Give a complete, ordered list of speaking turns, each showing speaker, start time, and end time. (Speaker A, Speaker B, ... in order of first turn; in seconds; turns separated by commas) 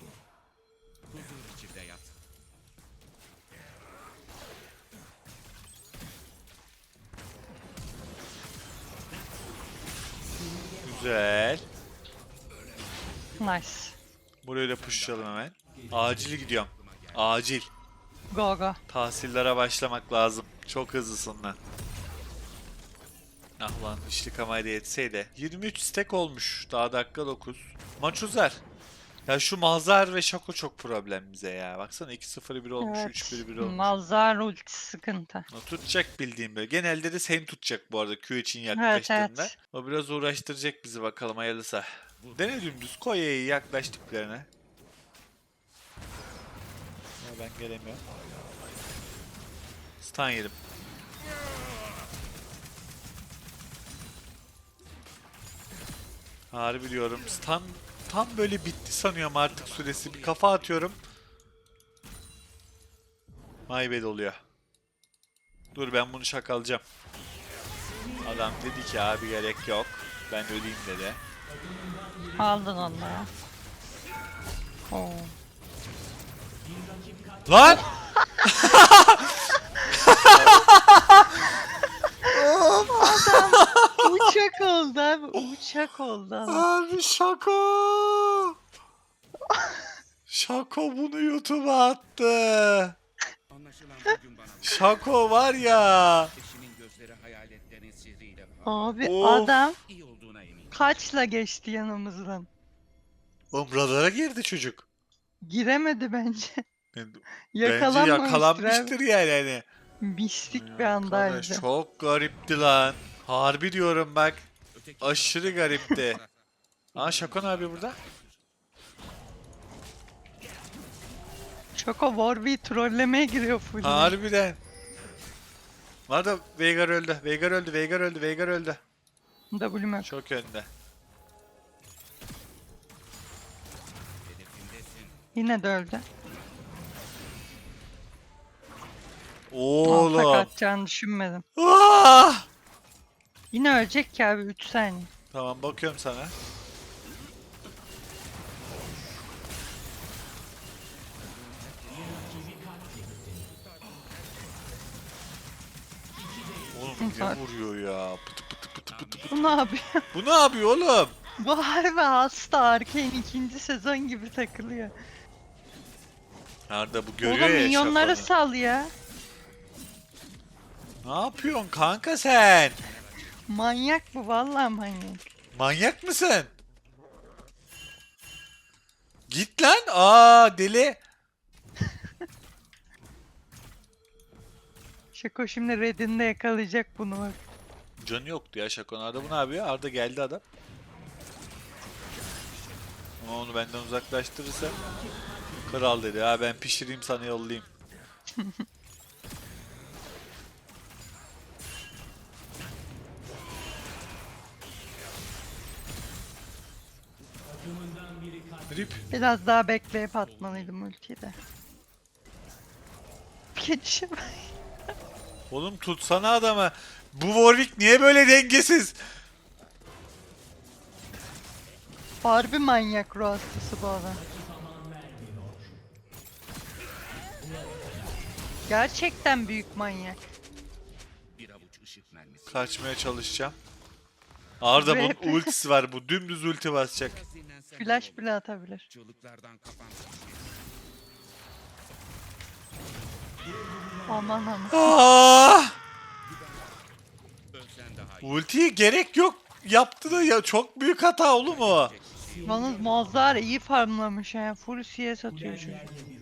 Speaker A: 1.1-2.2, Speaker A: 9.9-10.7, Speaker B: 10.8-11.6, Speaker A: 13.0-13.5, Speaker C: 13.4-13.9, Speaker B: 14.4-17.7, Speaker A: 14.7-17.4, Speaker C: 18.3-18.8, Speaker B: 18.9-21.6, Speaker B: 23.6-28.6, Speaker B: 29.2-33.9, Speaker C: 32.8-35.5, Speaker B: 35.5-44.5, Speaker C: 38.7-39.5, Speaker A: 42.2-42.7, Speaker B: 47.2-48.0, Speaker B: 50.0-50.5, Speaker B: 56.5-61.0, Speaker A: 59.4-61.0, Speaker B: 63.7-64.4, Speaker B: 65.7-66.8, Speaker B: 68.2-71.2, Speaker C: 72.4-73.3, Speaker C: 74.9-75.3, Speaker B: 77.5-77.8, Speaker C: 77.6-78.5, Speaker B: 78.4-81.4, Speaker B: 82.3-84.3, Speaker C: 82.9-86.7, Speaker B: 86.5-88.5, Speaker C: 89.5-89.9, Speaker B: 90.3-93.0, Speaker A: 93.5-95.7, Speaker B: 94.6-96.3, Speaker A: 96.3-98.8, Speaker C: 98.7-99.8, Speaker B: 99.0-99.5, Speaker A: 99.8-101.0, Speaker C: 100.7-102.5, Speaker B: 103.5-104.8, Speaker C: 105.4-106.6, Speaker B: 106.9-109.6, Speaker C: 107.5-108.9, Speaker C: 110.0-111.6, Speaker B: 110.5-114.4, Speaker A: 114.7-116.3, Speaker B: 115.0-116.2, Speaker B: 116.9-118.0, Speaker A: 116.9-118.4, Speaker C: 121.8-124.1, Speaker B: 123.8-124.6, Speaker B: 126.1-128.8, Speaker C: 129.5-130.1, Speaker B: 130.0-130.7, Speaker A: 134.2-135.2, Speaker C: 135.3-136.0, Speaker B: 139.5-140.5, Speaker C: 139.8-141.4, Speaker B: 141.6-142.5, Speaker C: 143.5-145.1, Speaker B: 145.3-146.3, Speaker A: 151.1-152.8, Speaker A: 153.4-154.8, Speaker B: 156.7-159.3, Speaker C: 157.0-157.4, Speaker A: 158.9-159.6, Speaker C: 159.3-160.0, Speaker B: 160.1-161.2, Speaker C: 161.4-164.9, Speaker B: 166.7-168.3, Speaker C: 167.2-168.9, Speaker B: 171.0-172.8, Speaker A: 172.8-173.6, Speaker C: 173.5-175.2, Speaker B: 175.5-176.5, Speaker B: 179.3-181.0, Speaker C: 185.1-187.4, Speaker B: 188.0-190.4, Speaker A: 192.2-192.9, Speaker B: 193.2-194.8, Speaker B: 195.7-197.7, Speaker C: 198.3-198.6, Speaker B: 208.7-209.0, Speaker C: 209.1-211.3, Speaker A: 210.2-210.7, Speaker C: 213.5-214.5, Speaker B: 215.5-219.0, Speaker C: 222.2-224.2, Speaker C: 228.7-230.2, Speaker A: 231.3-232.8, Speaker B: 232.5-233.6, Speaker B: 234.6-237.2, Speaker C: 234.8-235.5, Speaker A: 236.9-238.3, Speaker C: 237.8-238.8, Speaker A: 238.9-240.6, Speaker C: 244.1-244.9, Speaker B: 244.7-245.8, Speaker A: 246.2-246.9, Speaker A: 247.5-248.4, Speaker B: 248.2-251.9, Speaker A: 251.4-253.0, Speaker C: 252.5-255.9